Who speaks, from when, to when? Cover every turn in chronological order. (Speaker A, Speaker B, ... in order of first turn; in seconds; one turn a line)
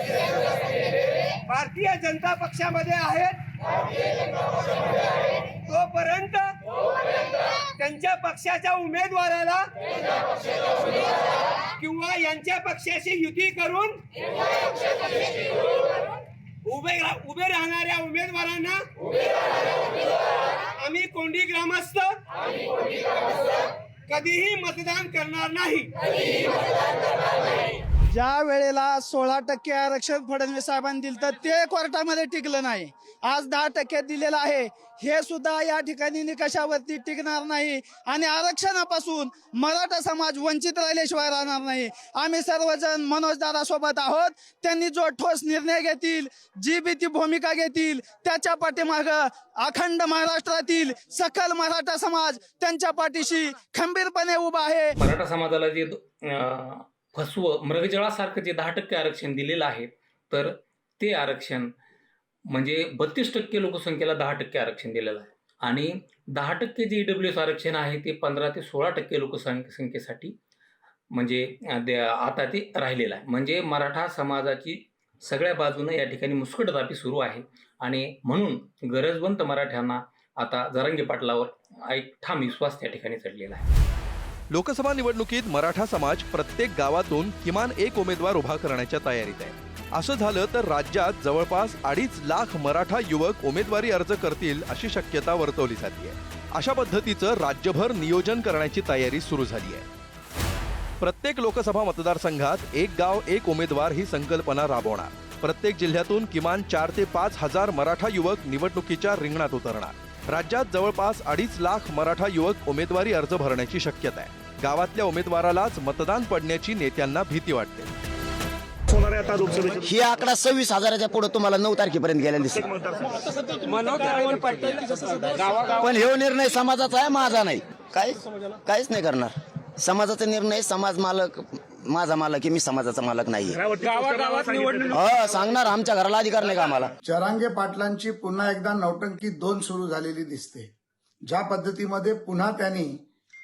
Speaker A: 1.5-3.4
Speaker A: 5.7-6.5
Speaker A: 7.8-9.7
Speaker A: 11.8-14.0
Speaker A: 16.6-18.8
Speaker A: 20.8-22.1
Speaker A: 24.1-25.9
Speaker B: 28.1-55.0
Speaker C: 55.0-61.7
Speaker C: 62.5-70.3
Speaker C: 71.1-83.7
Speaker D: 84.5-99.9
Speaker D: 101.0-117.9
Speaker E: 119.8-122.7
Speaker A: 123.7-124.6
Speaker E: 125.6-133.6
Speaker E: 134.9-136.9
Speaker F: 137.0-140.7
Speaker F: 141.3-143.0